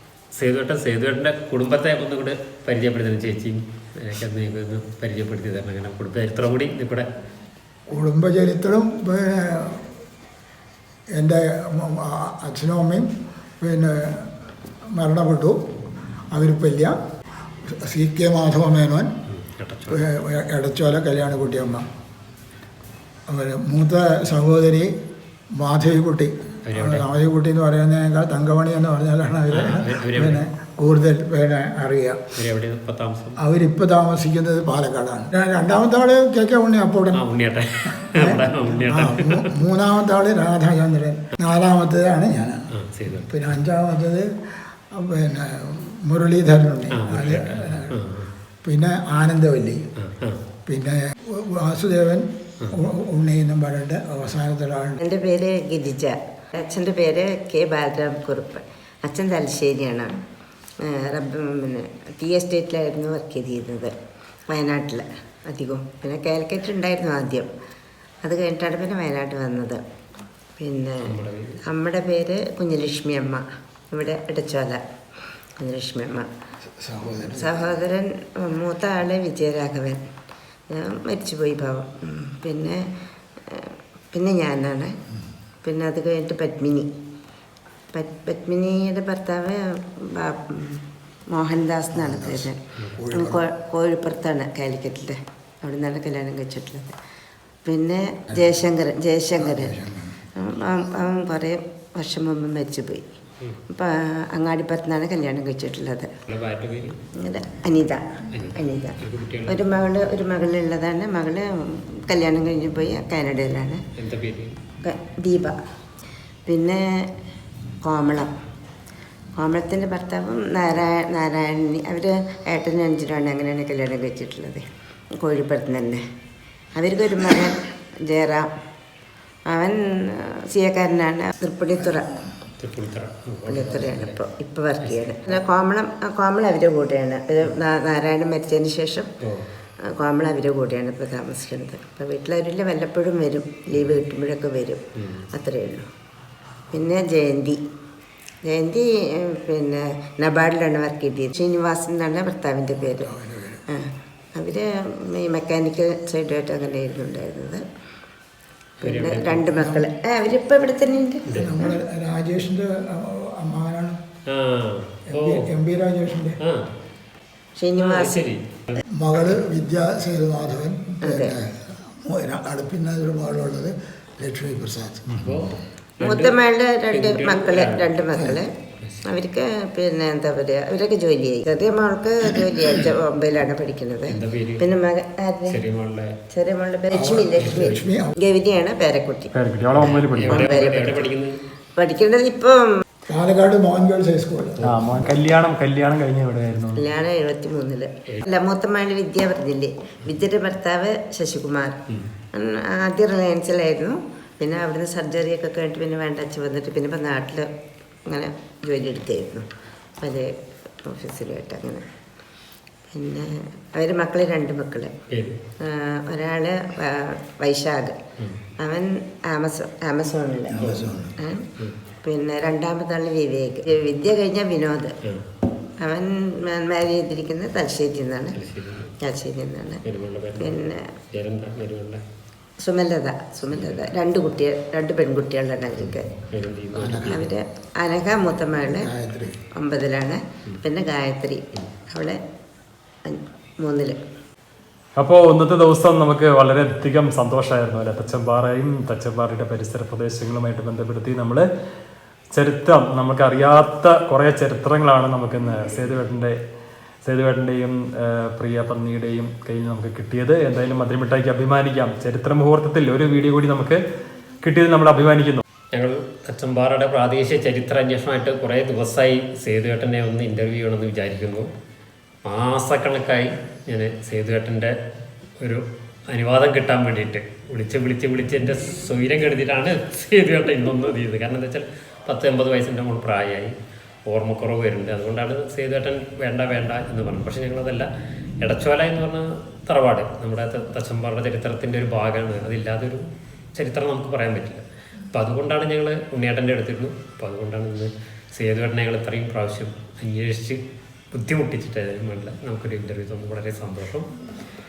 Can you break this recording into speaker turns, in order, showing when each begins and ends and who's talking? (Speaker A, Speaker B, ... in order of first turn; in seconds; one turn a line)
Speaker A: 0.4-7.1
Speaker B: 7.9-9.9
Speaker B: 11.2-13.1
Speaker B: 13.6-14.3
Speaker B: 14.9-15.6
Speaker B: 16.3-16.9
Speaker B: 17.7-19.1
Speaker A: 19.3-20.0
Speaker B: 19.9-21.9
Speaker B: 23.3-24.9
Speaker B: 25.6-32.2
Speaker A: 26.7-27.1
Speaker A: 29.5-30.4
Speaker A: 32.4-33.4
Speaker B: 33.4-37.2
Speaker A: 37.2-39.5
Speaker B: 37.9-44.3
Speaker A: 42.8-43.3
Speaker B: 44.9-48.0
Speaker A: 46.9-48.3
Speaker B: 48.6-49.8
Speaker A: 50.0-50.4
Speaker B: 50.7-55.0
Speaker C: 55.0-60.1
Speaker C: 60.9-63.9
Speaker C: 64.5-67.5
Speaker C: 68.2-69.8
Speaker C: 70.6-71.0
Speaker A: 71.0-71.6
Speaker C: 71.7-74.8
Speaker C: 75.6-76.3
Speaker B: 76.8-77.7
Speaker C: 77.3-80.0
Speaker C: 80.7-82.8
Speaker C: 83.5-84.9
Speaker C: 85.6-86.9
Speaker C: 87.9-92.6
Speaker B: 91.9-93.4
Speaker C: 93.1-96.9
Speaker C: 97.7-99.8
Speaker B: 99.4-100.2
Speaker C: 100.4-103.0
Speaker C: 103.7-106.1
Speaker A: 106.3-107.0
Speaker C: 107.2-108.0
Speaker A: 108.3-109.6
Speaker C: 108.5-113.8
Speaker A: 114.0-114.6
Speaker C: 114.8-115.6
Speaker C: 116.5-116.8
Speaker C: 117.8-118.3
Speaker C: 119.4-124.6
Speaker C: 125.2-126.0
Speaker C: 126.8-128.5
Speaker C: 129.5-132.1
Speaker A: 132.6-134.2
Speaker C: 133.5-139.1
Speaker A: 134.8-135.4
Speaker C: 139.9-144.8
Speaker A: 145.0-145.3
Speaker C: 145.3-145.9
Speaker C: 146.7-147.6
Speaker C: 148.4-153.1
Speaker B: 153.0-153.6
Speaker C: 153.7-157.6
Speaker A: 158.8-159.5
Speaker C: 158.8-161.4
Speaker B: 159.5-159.9
Speaker B: 161.3-164.0
Speaker A: 164.3-165.5
Speaker B: 165.1-166.4
Speaker A: 166.4-166.7
Speaker C: 167.6-168.2
Speaker A: 167.8-168.8
Speaker B: 168.9-175.5
Speaker C: 171.0-171.3
Speaker A: 175.2-176.4
Speaker C: 176.0-178.5
Speaker A: 176.9-177.9
Speaker A: 178.8-179.1
Speaker C: 179.1-185.6
Speaker A: 184.1-184.7
Speaker A: 185.5-186.1
Speaker C: 186.3-191.1
Speaker B: 186.9-188.1
Speaker A: 187.4-187.7
Speaker D: 189.3-190.6
Speaker A: 189.8-191.4
Speaker C: 191.8-192.6
Speaker B: 193.1-194.6
Speaker D: 194.6-196.8
Speaker C: 196.8-201.8
Speaker C: 202.3-207.5
Speaker C: 208.1-209.4
Speaker C: 210.0-210.3
Speaker C: 210.8-211.8
Speaker C: 212.9-214.9
Speaker A: 215.1-215.4
Speaker C: 215.7-218.0
Speaker C: 218.6-221.4
Speaker B: 220.5-221.1
Speaker C: 222.0-224.9
Speaker C: 225.8-228.4
Speaker A: 228.3-228.9
Speaker C: 229.0-229.8
Speaker A: 229.8-232.0
Speaker C: 230.4-230.8
Speaker C: 232.6-236.1
Speaker A: 233.5-233.9
Speaker A: 235.8-237.3
Speaker B: 236.8-237.3
Speaker C: 237.1-238.9
Speaker B: 238.6-239.4
Speaker C: 239.6-242.2
Speaker C: 243.1-244.0
Speaker D: 245.0-251.5
Speaker D: 252.3-256.4
Speaker D: 257.0-263.8
Speaker D: 264.4-265.4
Speaker A: 265.7-271.5
Speaker A: 272.2-274.7
Speaker A: 275.4-283.5
Speaker A: 284.1-287.9
Speaker A: 288.4-293.1
Speaker A: 293.6-300.6
Speaker A: 301.1-304.1